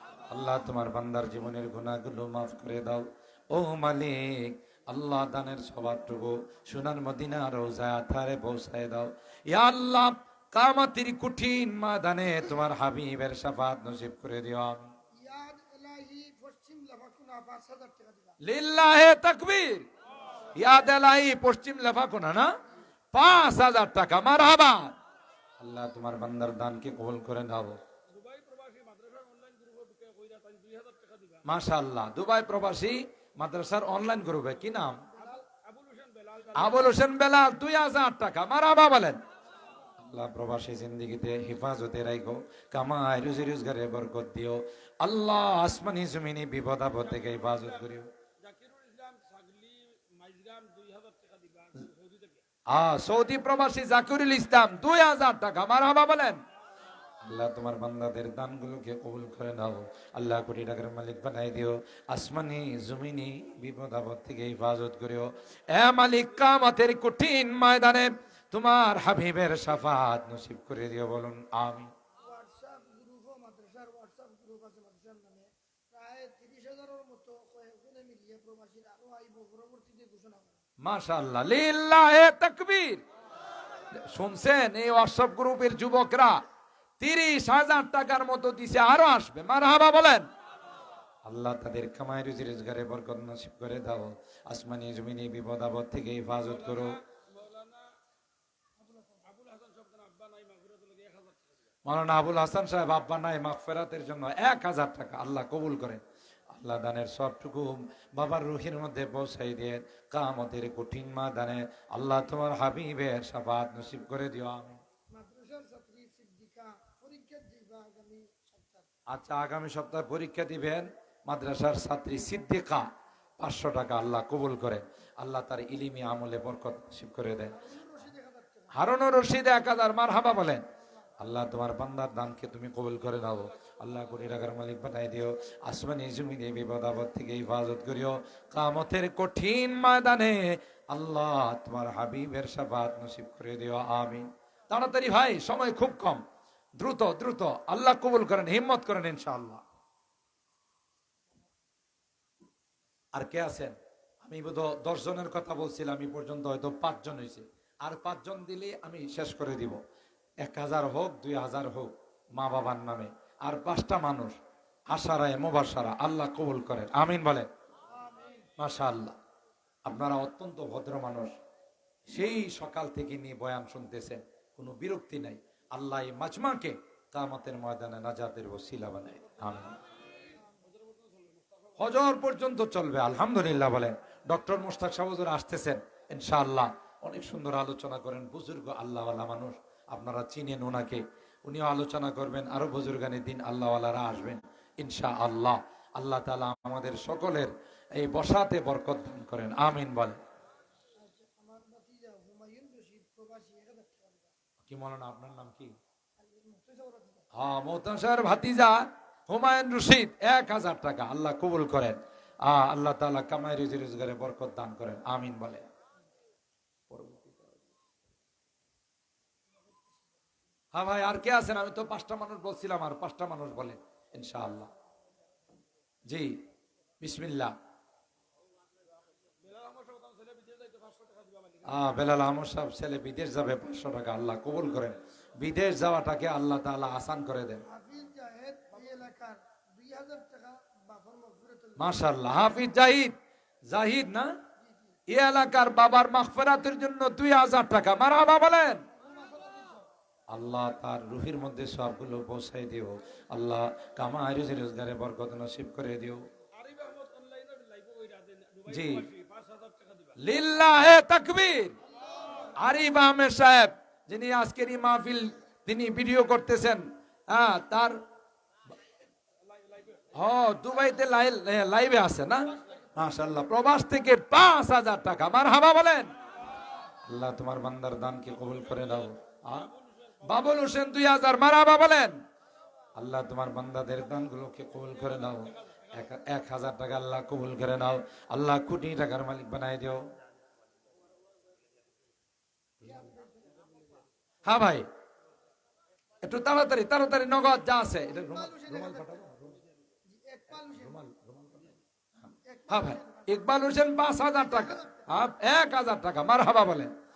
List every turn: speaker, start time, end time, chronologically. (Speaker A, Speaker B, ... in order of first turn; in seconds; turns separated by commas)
Speaker A: 0.3-14.9, Speaker B: 15.2-18.4, Speaker A: 18.4-19.9, Speaker A: 20.5-22.5, Speaker A: 23.1-24.9, Speaker A: 25.6-27.8, Speaker C: 28.1-31.4, Speaker A: 31.4-35.1, Speaker C: 35.5-36.5, Speaker A: 36.5-39.2, Speaker A: 40.0-48.1, Speaker C: 48.4-52.4, Speaker A: 52.7-56.4, Speaker A: 57.2-71.9, Speaker B: 72.2-80.5, Speaker A: 80.8-83.0, Speaker A: 83.9-86.4, Speaker A: 87.0-90.3, Speaker A: 91.2-97.0, Speaker C: 97.3-97.9, Speaker B: 98.9-99.2, Speaker C: 99.3-101.4, Speaker A: 101.8-114.8, Speaker B: 115.1-118.9, Speaker A: 119.1-122.8, Speaker A: 123.4-127.6, Speaker B: 127.6-128.7, Speaker A: 128.8-130.6, Speaker A: 131.2-146.2, Speaker A: 146.8-149.6, Speaker A: 153.1-159.8, Speaker A: 160.4-164.4, Speaker A: 164.9-167.5, Speaker B: 167.9-168.5, Speaker A: 168.6-169.2, Speaker A: 169.9-171.3, Speaker A: 172.1-179.8, Speaker C: 180.8-181.5, Speaker A: 181.8-200.2, Speaker B: 201.0-204.3, Speaker A: 204.6-205.7, Speaker B: 206.2-207.2, Speaker A: 207.4-215.7, Speaker A: 216.9-217.6, Speaker A: 220.7-224.7, Speaker A: 226.1-226.4, Speaker A: 227.0-227.5, Speaker C: 229.4-231.6, Speaker A: 231.6-237.6, Speaker B: 237.7-241.9, Speaker A: 241.8-243.1, Speaker A: 243.7-244.3, Speaker A: 245.1-248.8, Speaker B: 249.0-249.9, Speaker A: 250.3-256.2, Speaker C: 256.6-260.1, Speaker A: 258.7-259.1, Speaker A: 260.1-261.8, Speaker A: 262.5-268.0, Speaker C: 269.7-270.1, Speaker A: 270.1-276.1, Speaker A: 277.1-279.7, Speaker A: 280.2-282.2, Speaker A: 282.9-290.0, Speaker A: 292.8-293.1, Speaker B: 292.9-293.8, Speaker A: 294.4-294.9, Speaker A: 296.2-299.6, Speaker B: 298.2-299.2, Speaker B: 300.1-300.9, Speaker A: 300.6-301.8, Speaker B: 302.5-303.3, Speaker A: 302.7-306.9, Speaker B: 304.6-305.0